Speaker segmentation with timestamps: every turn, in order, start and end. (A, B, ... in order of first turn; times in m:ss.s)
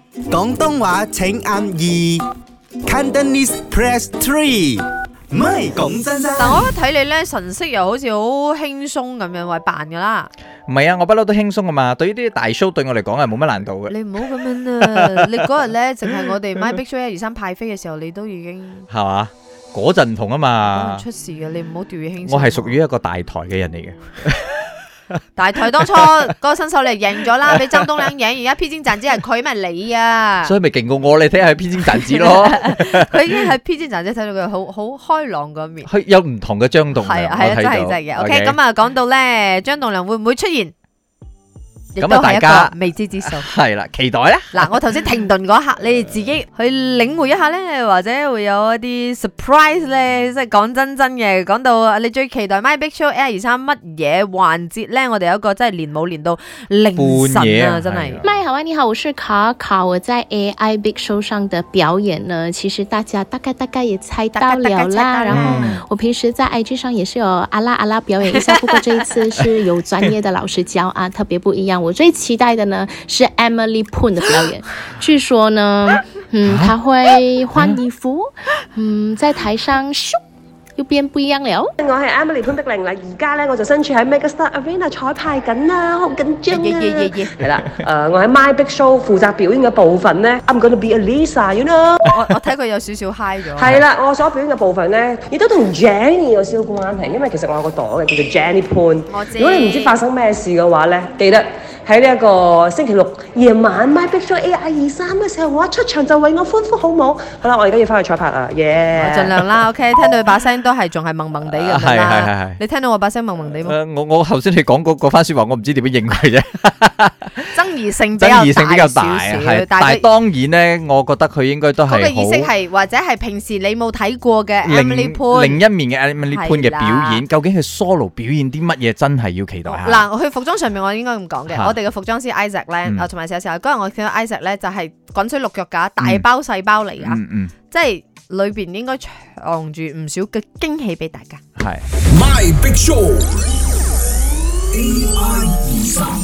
0:00.3-0:02.2 A
0:02.8-0:06.7 A
0:06.4-0:10.3 B
0:10.7-0:14.0 C
0:13.9-0:18.9 B
0:14.8-0:15.3 C
0:18.9-0:21.0 C
0:20.6-0:22.8 B
0:22.2-0:25.2 C
0:25.4-0:30.5 B
0:25.8-0:26.3 C
0:27.5-0:28.0 C
0:30.4-0:33.4 C
0:31.8-0:35.9 B
0:35.9-0:38.6 C
0:37.0-0:40.7 B
0:42.0-0:43.5 B
0:42.0-0:44.7 C
0:44.5-0:58.2 B
0:57.0-0:58.3 C
0:58.2-1:20.2 D
1:04.3-1:05.8 B
1:05.3-1:05.8 C
1:08.3-1:08.8 B
1:16.5-1:16.8 C
1:20.8-1:21.7 D
1:21.8-1:32.1 E
1:26.5-1:27.4 B
1:32.1-1:33.8 B
1:33.6-1:49.5 E
1:39.1-1:40.0 B
1:49.0-1:53.8 B
1:51.4-1:52.6 C
1:53.5-1:57.6 C
1:57.5-2:00.1 B
1:58.2-2:02.5 C
2:01.9-2:05.7 B
2:04.6-2:10.1 C
2:06.3-2:07.2 B
2:09.7-2:21.4 B
2:11.5-2:11.8 C
2:16.0-2:16.3 C
2:17.0-2:17.5 C
2:21.6-2:21.8 C
2:22.1-2:23.3 F
2:24.7-2:25.9 F